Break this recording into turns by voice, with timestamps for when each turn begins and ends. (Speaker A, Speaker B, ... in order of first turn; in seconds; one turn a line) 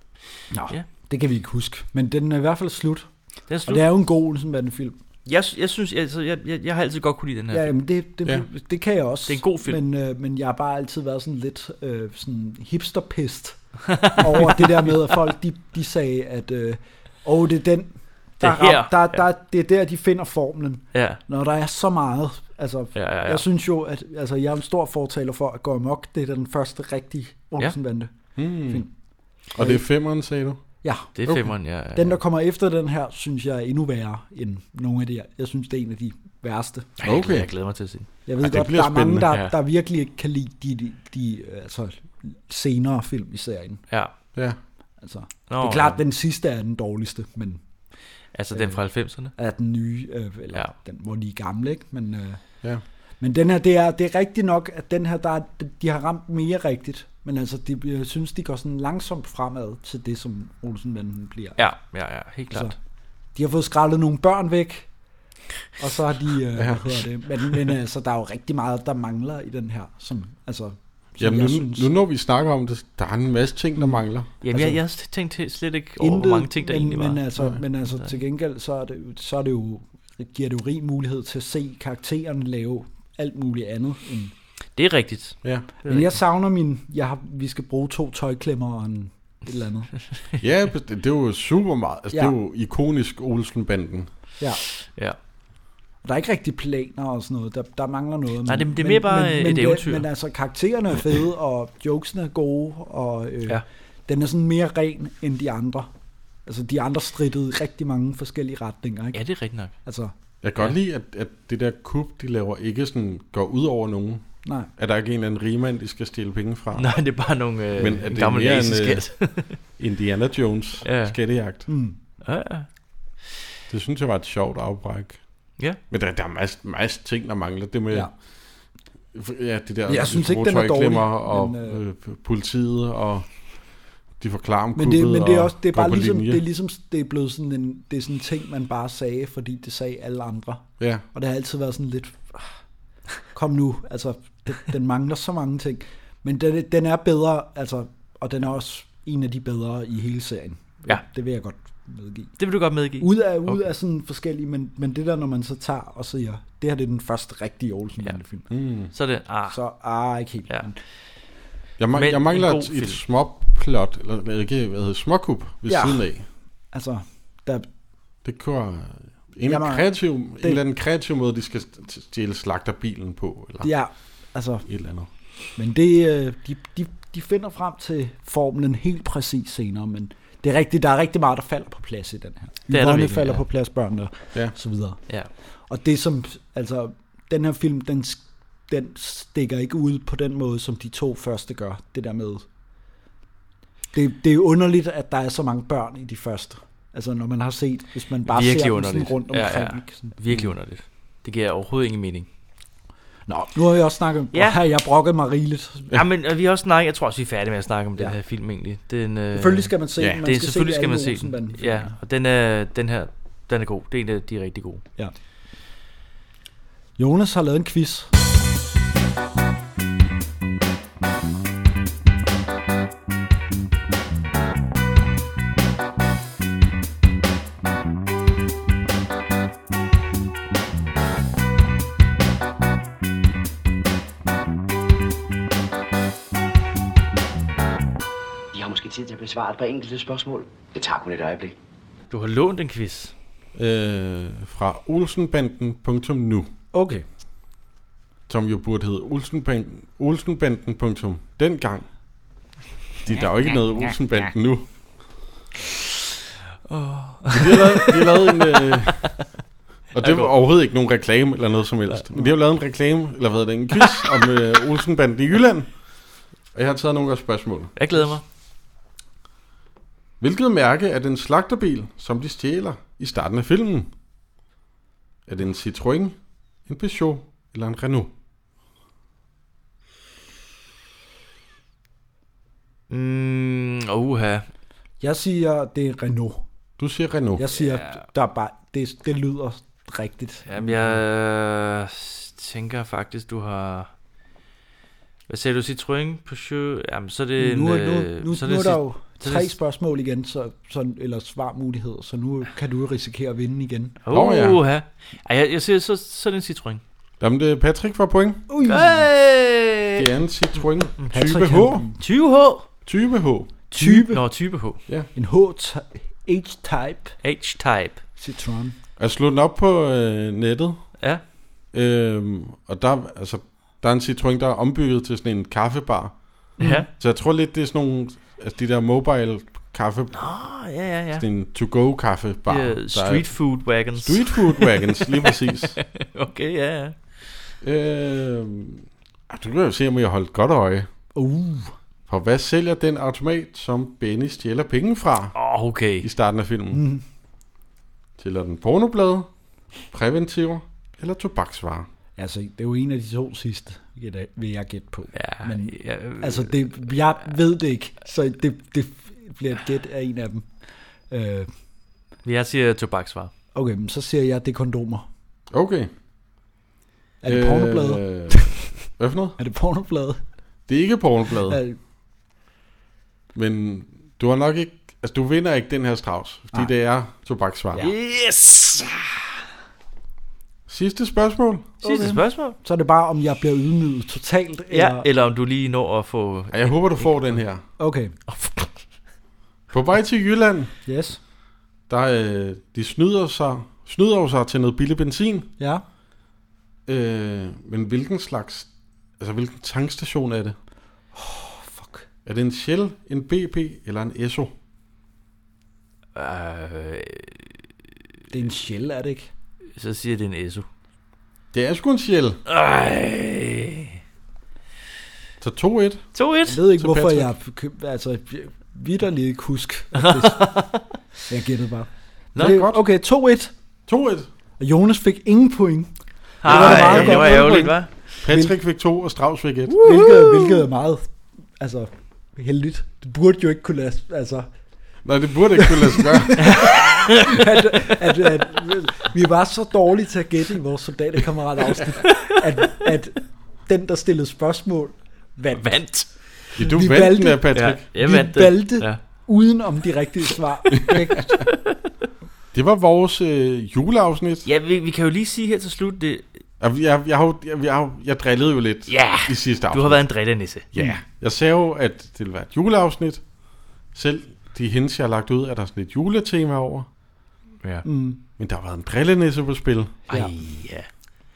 Speaker A: 0.5-3.1
Speaker B: 3.5-3.9
Speaker A: 3.6-5.0
Speaker B: 5.2-7.7
Speaker A: 7.5-28.9
Speaker B: 9.3-9.8
Speaker B: 13.9-15.1
Speaker B: 18.4-19.2
Speaker B: 20.9-21.2
Speaker B: 22.9-23.4
Speaker C: 28.4-28.8
Speaker A: 29.5-29.8
Speaker C: 29.5-30.6
Speaker A: 30.8-36.9
Speaker B: 31.1-32.2
Speaker B: 37.0-38.1
Speaker C: 37.0-37.5
Speaker A: 38.2-43.8
Speaker C: 38.4-39.3
Speaker A: 45.0-47.6
Speaker B: 45.5-46.0
Speaker B: 48.3-49.3
Speaker A: 48.5-48.8
Speaker A: 49.3-52.4
Speaker A: 53.2-61.7
Speaker B: 61.6-62.7
Speaker A: 63.3-64.9
Speaker A: 65.8-71.9
Speaker C: 66.5-67.0
Speaker C: 71.2-74.3
Speaker B: 74.4-77.2
Speaker A: 74.5-74.8
Speaker A: 76.0-84.3
Speaker B: 84.8-86.2
Speaker A: 85.8-89.9
Speaker C: 90.4-94.1
Speaker B: 94.8-95.2
Speaker A: 96.0-105.9
Speaker B: 98.5-100.0
Speaker A: 106.5-109.2
Speaker B: 109.1-109.7
Speaker A: 109.8-110.1
Speaker C: 110.4-114.2
Speaker A: 114.4-114.7
Speaker C: 114.8-116.9
Speaker B: 116.7-119.6
Speaker C: 117.7-119.0
Speaker C: 119.8-121.6
Speaker B: 120.8-121.2
Speaker A: 121.7-122.0
Speaker B: 122.2-122.7
Speaker C: 123.7-125.2
Speaker C: 125.9-128.1
Speaker C: 129.1-133.3
Speaker A: 129.9-131.8
Speaker C: 134.2-136.4
Speaker A: 134.8-142.4
Speaker A: 143.3-152.4
Speaker B: 152.4-153.5
Speaker A: 153.0-158.4
Speaker C: 158.5-158.9
Speaker B: 158.9-159.6
Speaker A: 159.5-160.8
Speaker C: 161.8-166.3
Speaker B: 161.9-163.0
Speaker A: 165.7-166.1
Speaker A: 166.7-167.7
Speaker C: 168.2-173.7
Speaker A: 169.5-170.6
Speaker A: 173.6-174.7
Speaker C: 174.7-175.1
Speaker A: 175.5-185.0
Speaker B: 182.7-183.4
Speaker A: 185.7-192.4
Speaker A: 193.9-200.1
Speaker B: 198.3-202.3
Speaker A: 203.3-205.9
Speaker B: 204.3-204.6
Speaker B: 205.9-214.8
Speaker A: 209.3-211.9
Speaker A: 217.0-218.1
Speaker D: 238.5-241.6
Speaker B: 242.1-243.1
Speaker C: 243.5-246.5
Speaker A: 246.7-247.0
Speaker C: 248.3-251.9
Speaker C: 253.0-254.7
Speaker B: 256.7-258.8
Speaker C: 257.3-259.1
Speaker C: 259.9-265.8
Speaker B: 260.0-260.3
Speaker C: 266.5-267.7
Speaker B: 267.8-268.2
Speaker C: 270.2-273.9
Speaker C: 275.3-278.1
Speaker B: 282.9-284.4
Speaker A: 285.0-286.4
Speaker C: 286.8-287.5
Speaker A: 287.4-291.0
Speaker B: 287.6-288.0
Speaker B: 290.5-293.9
Speaker B: 295.3-299.5
Speaker A: 297.4-304.0
Speaker B: 304.0-306.8
Speaker C: 304.1-304.6
Speaker C: 307.2-308.4
Speaker A: 308.5-309.1
Speaker B: 308.6-310.1
Speaker C: 309.9-311.9
Speaker A: 311.1-311.9
Speaker B: 312.0-312.7
Speaker C: 312.9-313.5
Speaker A: 313.7-314.2
Speaker B: 313.7-314.8
Speaker A: 315.1-317.1
Speaker B: 317.2-318.0
Speaker A: 318.2-318.8
Speaker C: 319.0-320.9
Speaker C: 321.7-330.2
Speaker A: 326.6-326.9
Speaker B: 326.6-326.9
Speaker B: 330.1-331.2
Speaker C: 331.1-335.8
Speaker B: 332.5-337.3
Speaker C: 337.6-340.9
Speaker A: 341.1-341.7
Speaker C: 342.1-345.4
Speaker B: 345.4-346.1
Speaker C: 346.0-346.8
Speaker A: 346.7-347.0
Speaker C: 348.2-349.3
Speaker C: 349.9-351.9
Speaker A: 352.2-360.5
Speaker B: 355.1-357.0
Speaker A: 361.1-361.5
Speaker B: 362.2-363.3
Speaker A: 363.5-365.1
Speaker C: 365.5-365.9
Speaker A: 367.2-368.6
Speaker C: 367.2-369.4
Speaker A: 369.4-370.2
Speaker C: 370.7-371.6
Speaker A: 371.5-371.8
Speaker C: 373.3-377.9
Speaker B: 377.8-379.2
Speaker C: 380.7-381.7
Speaker B: 381.8-382.6
Speaker A: 381.8-385.1
Speaker B: 384.7-387.4
Speaker C: 386.5-387.6
Speaker A: 387.8-388.1
Speaker B: 388.3-388.7
Speaker C: 389.7-390.7
Speaker A: 390.9-391.2
Speaker C: 391.9-395.5
Speaker A: 395.6-395.8
Speaker C: 396.9-400.6
Speaker A: 401.1-402.1
Speaker C: 402.2-404.5
Speaker B: 406.1-407.6
Speaker A: 408.3-409.3
Speaker B: 409.8-410.7
Speaker C: 411.5-412.4
Speaker B: 412.5-414.0
Speaker C: 415.4-416.1
Speaker B: 416.1-416.6
Speaker A: 416.5-420.6
Speaker C: 416.8-417.3
Speaker B: 420.0-420.8
Speaker A: 421.3-423.5
Speaker B: 422.3-422.7
Speaker C: 422.4-422.8
Speaker C: 423.9-424.3
Speaker A: 424.6-425.9
Speaker A: 426.4-427.8
Speaker B: 426.4-428.1
Speaker C: 426.4-429.8
Speaker A: 428.3-428.6
Speaker A: 429.7-434.5
Speaker B: 429.8-430.6
Speaker C: 435.0-436.6
Speaker A: 435.6-445.7
Speaker B: 436.4-438.4
Speaker B: 441.9-442.3
Speaker B: 445.6-446.6
Speaker C: 446.6-447.9
Speaker A: 446.6-451.4
Speaker B: 447.5-449.0
Speaker C: 452.5-454.5
Speaker B: 454.4-456.3
Speaker C: 456.6-460.1
Speaker B: 458.9-460.7
Speaker C: 460.7-463.2
Speaker C: 463.9-466.9
Speaker A: 467.8-468.2
Speaker C: 468.4-470.0
Speaker B: 470.1-470.9